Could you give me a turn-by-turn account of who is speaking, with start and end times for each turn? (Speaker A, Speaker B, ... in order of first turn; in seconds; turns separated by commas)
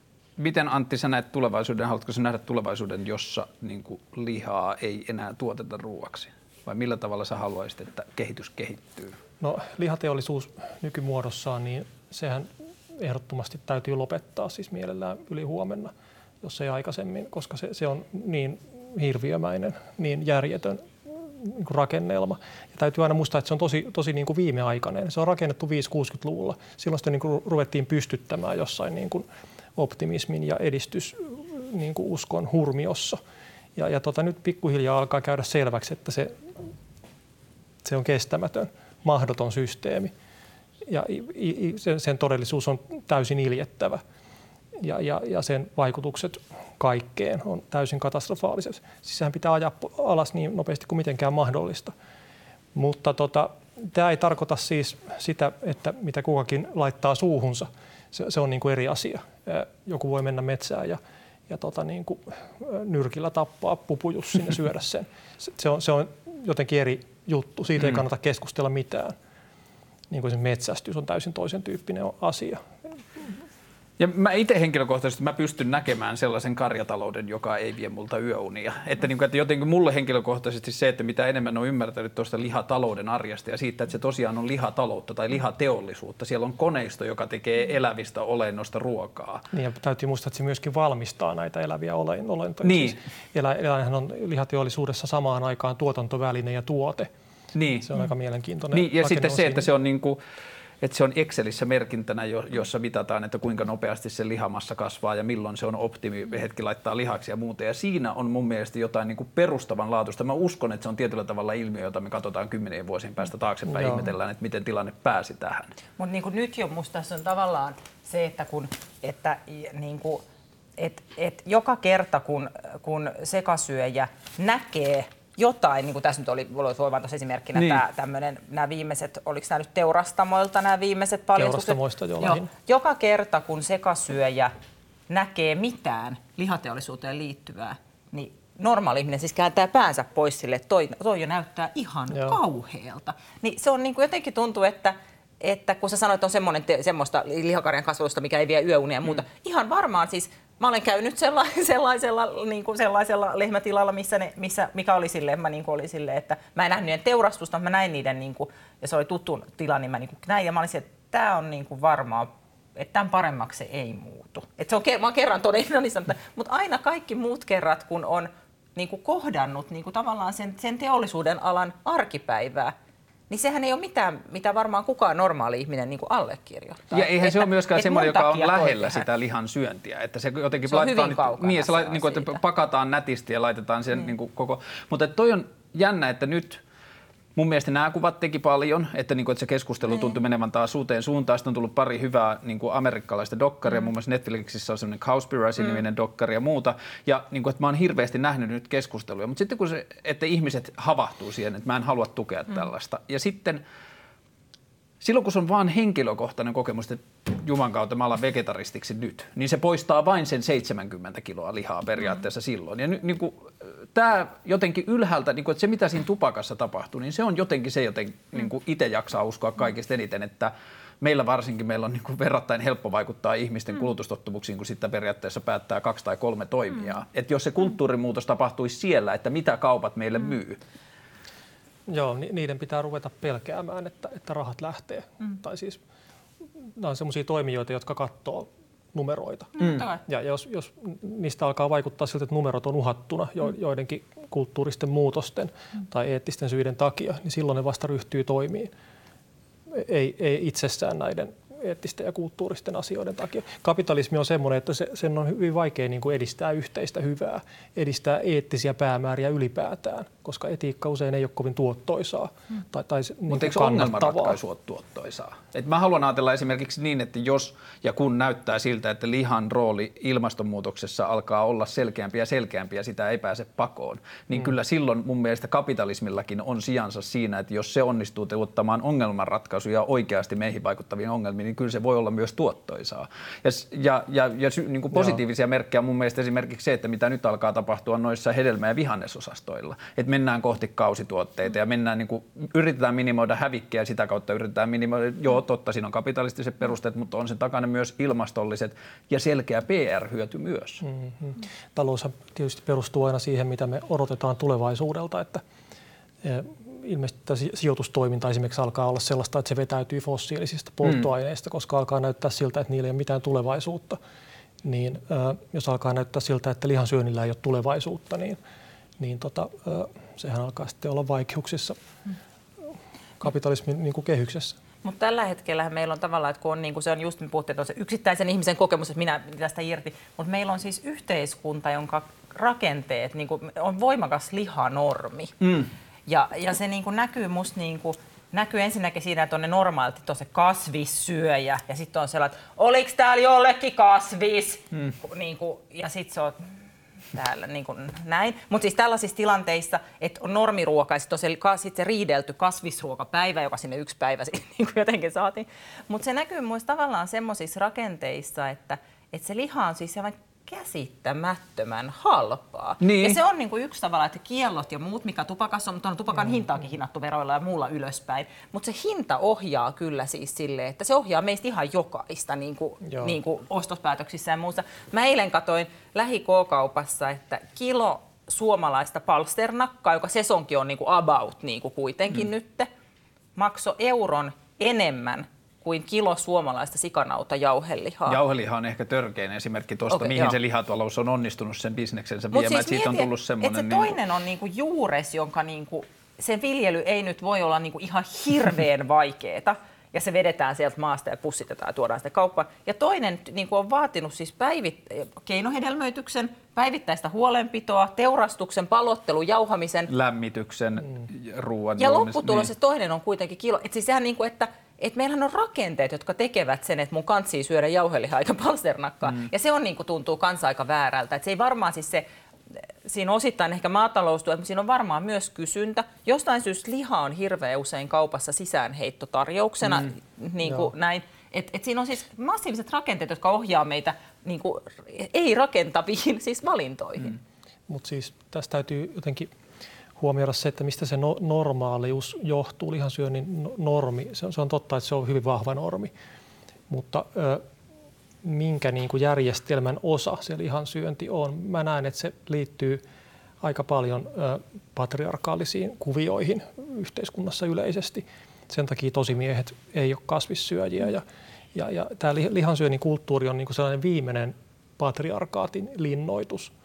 Speaker A: 0.4-9.2, Speaker B: 9.4-29.2, Speaker B: 29.8-33.2, Speaker B: 33.8-36.4, Speaker B: 37.8-40.1, Speaker B: 40.9-44.0, Speaker B: 44.8-51.9, Speaker B: 52.8-69.2, Speaker B: 70.1-72.7, Speaker A: 74.0-89.5, Speaker B: 89.5-97.1, Speaker A: 92.6-93.0, Speaker A: 97.5-97.9, Speaker B: 97.8-99.7, Speaker A: 98.7-100.2, Speaker A: 100.8-115.8, Speaker B: 113.7-114.1, Speaker C: 116.0-120.2, Speaker C: 120.8-134.5, Speaker A: 127.5-127.8, Speaker B: 131.4-132.5, Speaker C: 135.1-172.7, Speaker B: 142.1-142.4, Speaker C: 173.3-179.1, Speaker A: 176.9-186.6, Speaker C: 180.7-182.4, Speaker A: 187.3-203.6, Speaker A: 205.0-230.6, Speaker B: 231.9-235.8, Speaker B: 236.8-239.5, Speaker C: 239.6-240.0, Speaker A: 239.6-239.9, Speaker B: 240.1-248.7, Speaker B: 249.7-264.4, Speaker A: 263.3-300.8, Speaker B: 300.8-305.4, Speaker B: 306.2-314.0, Speaker B: 314.6-318.4, Speaker B: 319.0-321.8, Speaker B: 323.2-324.6, Speaker C: 324.8-335.4, Speaker A: 335.4-335.7, Speaker C: 336.1-346.4, Speaker C: 347.1-382.7, Speaker A: 362.8-363.2, Speaker B: 372.9-373.1, Speaker C: 383.4-388.2, Speaker A: 388.1-394.0, Speaker C: 389.9-390.4, Speaker C: 392.3-409.9, Speaker A: 409.9-412.5, Speaker C: 411.8-437.2, Speaker B: 430.4-430.7, Speaker B: 437.7-439.3, Speaker B: 440.0-445.9, Speaker B: 446.7-447.4, Speaker B: 448.2-452.8, Speaker B: 453.4-466.5